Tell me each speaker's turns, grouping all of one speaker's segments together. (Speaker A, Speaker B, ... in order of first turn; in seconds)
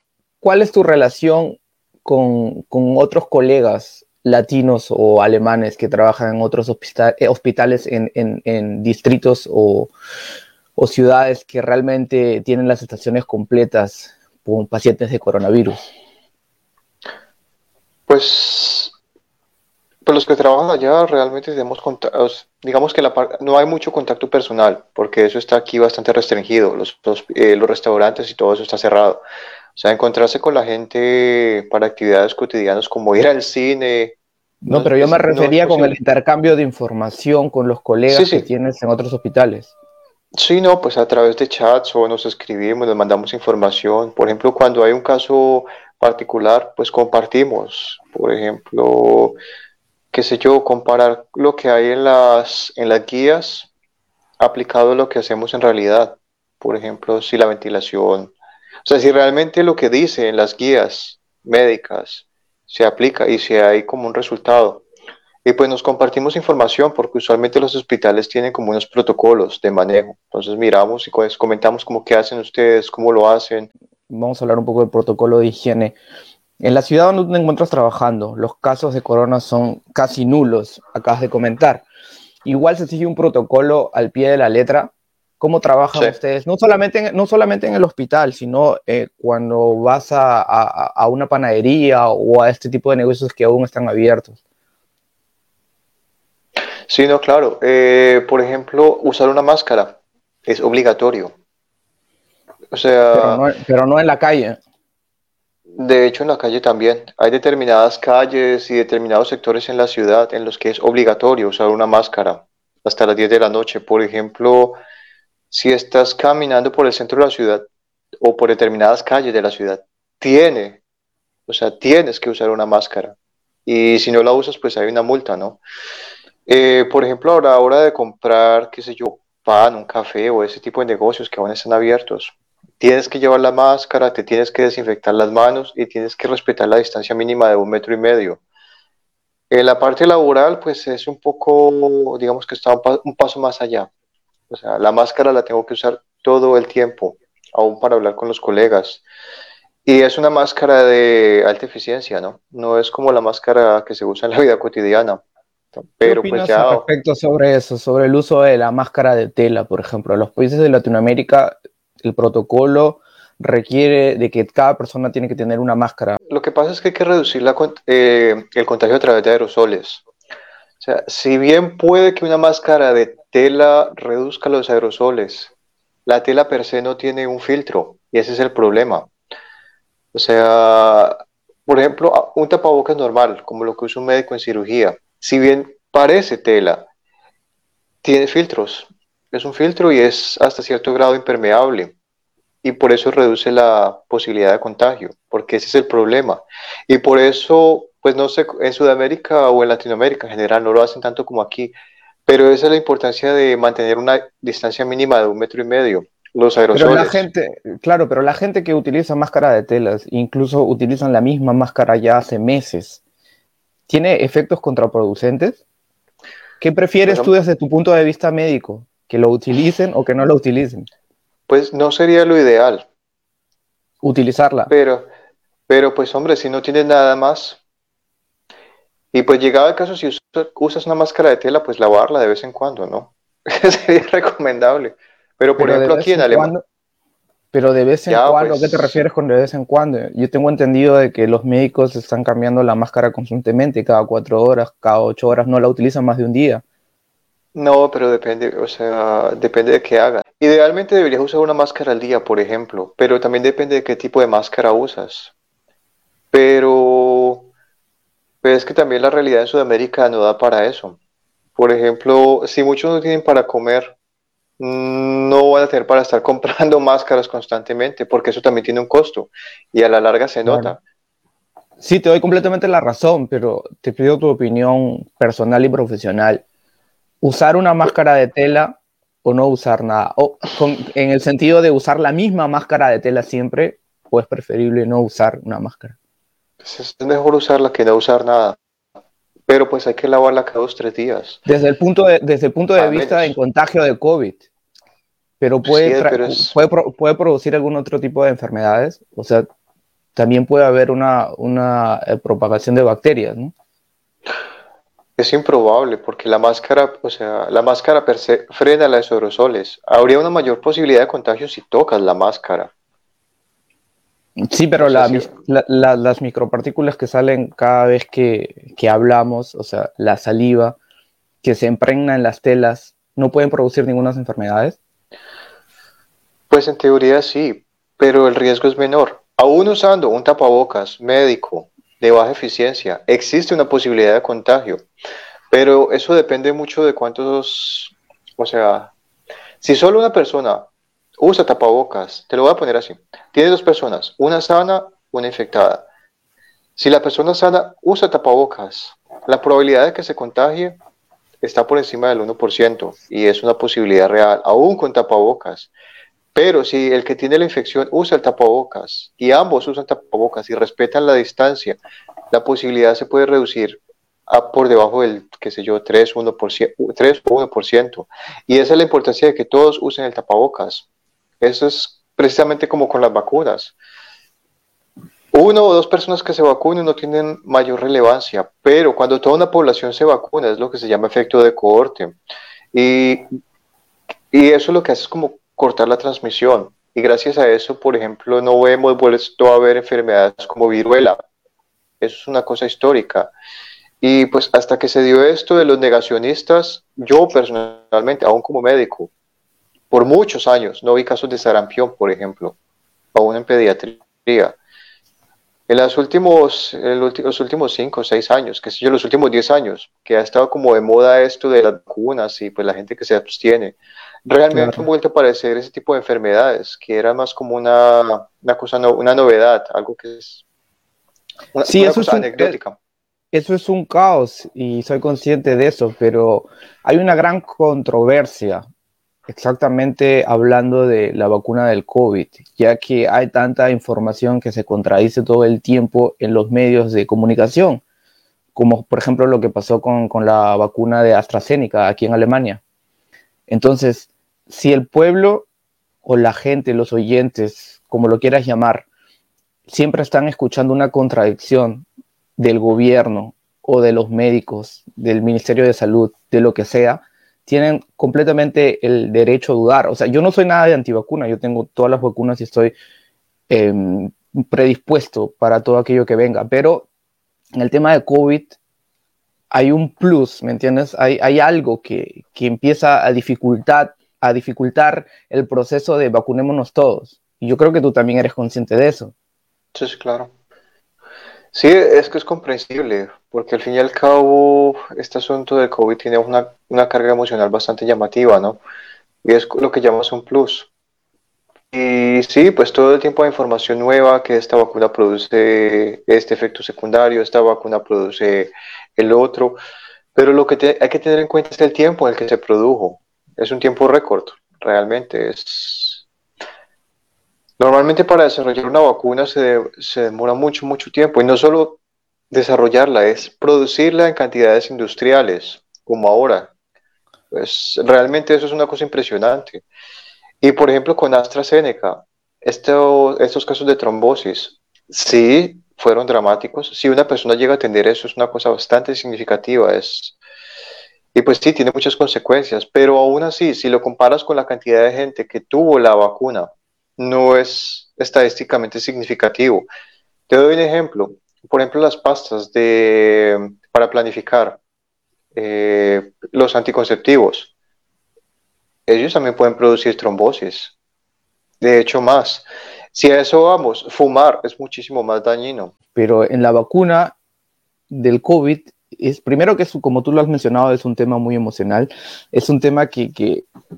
Speaker A: 0.4-9.9, 10.8-15.8, 34.6-39.7, 74.1-75.9, 76.6-81.8, 82.4-94.4, 103.1-104.6, 156.0-166.2, 206.7-213.0, 213.9-215.6, 216.6-220.9, 224.0-224.7, 235.6-236.6, 237.5-246.6, 270.4-270.8, 271.8-276.4, 277.2-285.9, 291.4-294.4, 295.4-299.4, 300.1-303.5, 314.4-320.8, 321.4-324.8, 414.5-414.9, 421.6-422.6, 423.3-428.6, 429.3-437.8, 438.5-442.6, 443.5-445.5, 446.0-448.9, 449.7-451.8, 452.4-462.7, 463.5-466.9, 467.6-468.5, 469.5-479.1, 555.9-557.1, 557.9-563.5
Speaker B: 18.1-18.9, 20.1-29.2, 29.8-34.2, 34.7-36.0, 38.1-38.5, 40.3-49.4, 50.1-53.7, 54.4-64.8, 65.4-73.7, 96.9-101.3, 102.7-103.4, 105.7-114.8, 115.5-117.6, 118.2-120.8, 121.5-125.6, 126.5-138.4, 139.5-143.9, 144.5-149.0, 149.8-155.2, 155.7-156.8, 166.3-170.0, 170.8-175.5, 176.1-179.1, 180.1-186.9, 188.0-191.9, 192.6-201.7, 202.3-207.2, 217.0-217.3, 221.5-222.8, 224.7-225.1, 225.7-227.6, 229.1-236.5, 238.1-239.0, 247.5-255.3, 256.3-257.5, 258.4-261.0, 261.6-263.9, 264.6-270.8, 286.6-288.6, 289.5-291.4, 292.8-293.3, 295.6-296.5, 305.2-312.7, 314.8-315.3, 326.5-334.9, 335.5-338.9, 339.6-340.7, 341.2-345.9, 346.8-350.8, 351.4-355.7, 356.3-361.8, 362.3-370.9, 371.4-373.8, 375.3-382.1, 382.7-383.3, 384.3-391.2, 392.0-393.3, 394.0-399.1, 399.9-402.6, 403.1-404.6, 405.7-420.4, 421.5-422.8, 479.7-480.3, 481.5-488.6, 489.2-490.7, 491.7-499.6, 500.1-506.0, 507.6-511.8, 512.3-516.5, 517.3-519.6, 520.4-530.1, 531.1-539.7, 540.3-544.6, 545.3-547.5, 548.9-550.7, 551.6-555.7